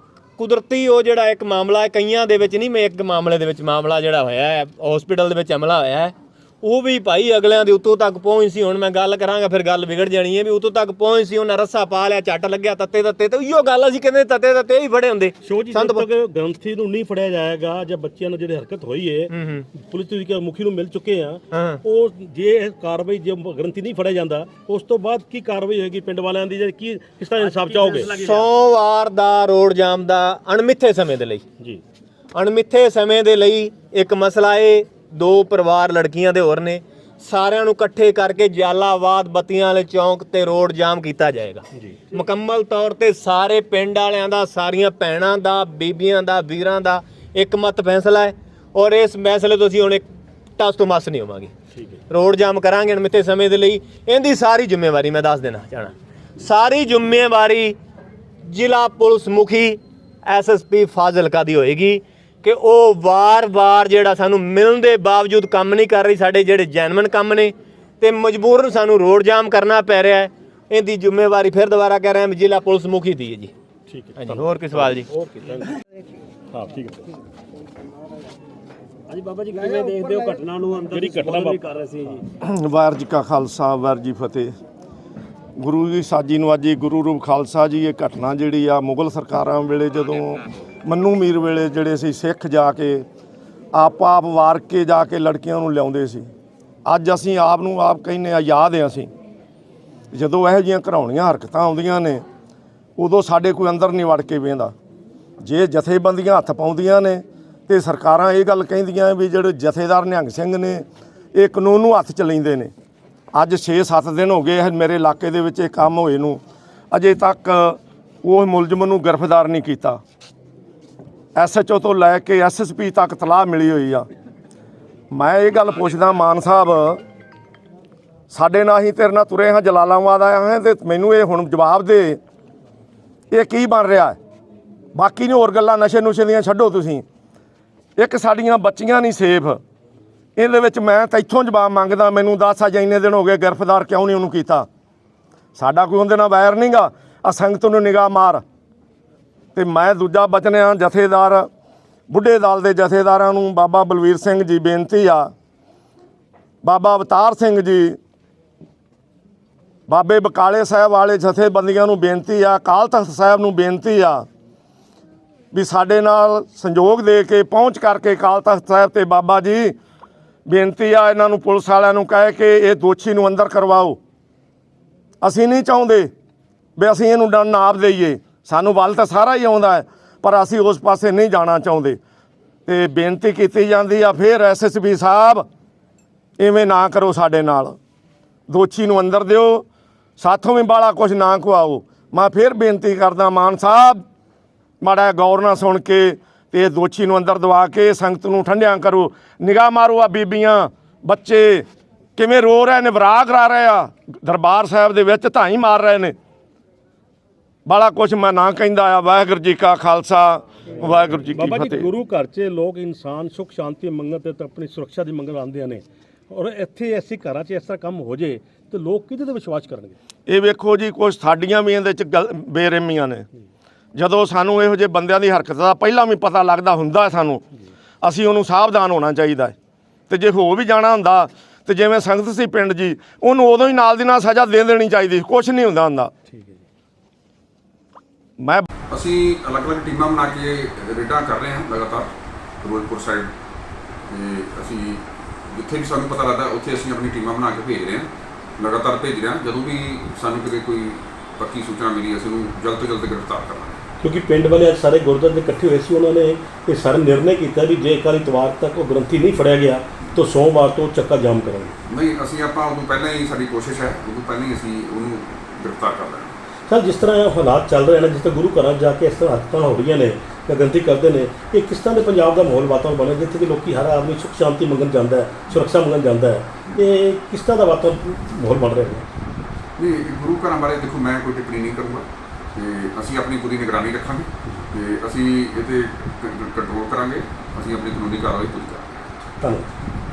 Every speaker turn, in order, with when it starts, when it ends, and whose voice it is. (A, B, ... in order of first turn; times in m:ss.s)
0:00.4-0:16.1 A
0:15.4-0:28.2 B
0:19.3-0:19.7 A
0:21.5-0:21.8 A
0:27.4-0:28.5 C
0:28.1-0:31.4 A
0:32.3-0:50.0 A
0:41.8-0:42.2 B
0:50.6-0:51.5 A
0:52.1-0:57.8 A
0:58.4-1:13.5 A
1:13.9-1:15.7 B
1:14.2-1:15.1 A
1:16.5-1:17.0 B
1:19.1-1:22.2 C
1:20.9-1:22.2 B
1:22.4-1:24.5 D
1:25.6-1:33.0 D
1:33.7-1:36.3 D
1:36.9-1:39.1 D
1:40.1-1:42.2 D
1:43.0-1:44.7 D
1:45.4-1:52.7 D
1:53.4-1:56.4 D
1:56.9-2:00.0 D
2:01.4-2:04.1 D
2:05.1-2:07.0 D
2:08.3-2:12.2 D
2:13.3-2:14.2 D
2:15.0-2:17.0 D
2:18.0-2:19.6 D
2:20.4-2:24.7 D
2:25.6-2:28.4 D
2:29.6-2:31.5 D
2:32.1-2:35.3 D
2:36.6-2:38.0 D
2:39.9-2:44.2 D
2:45.5-2:49.8 D
2:50.5-2:54.0 D
2:55.2-2:56.1 D
2:56.8-3:02.0 D
3:02.7-3:05.4 D
3:06.4-3:07.8 D
3:08.5-3:09.6 D
3:10.2-3:14.0 D
3:14.8-3:21.6 D
3:22.2-3:26.1 D
3:27.7-3:31.9 D
3:31.3-3:40.0 B
3:40.3-3:43.2 D
3:44.0-3:47.4 D
3:48.0-3:49.6 D
3:50.1-3:56.1 D
3:56.3-3:56.6 B
3:58.9-4:02.1 E
4:02.6-4:03.3 E
4:04.1-4:13.8 E
4:14.0-4:21.8 B
4:21.9-4:26.4 E
4:26.7-4:39.1 B
4:39.8-4:48.9 E
4:49.4-4:49.7 B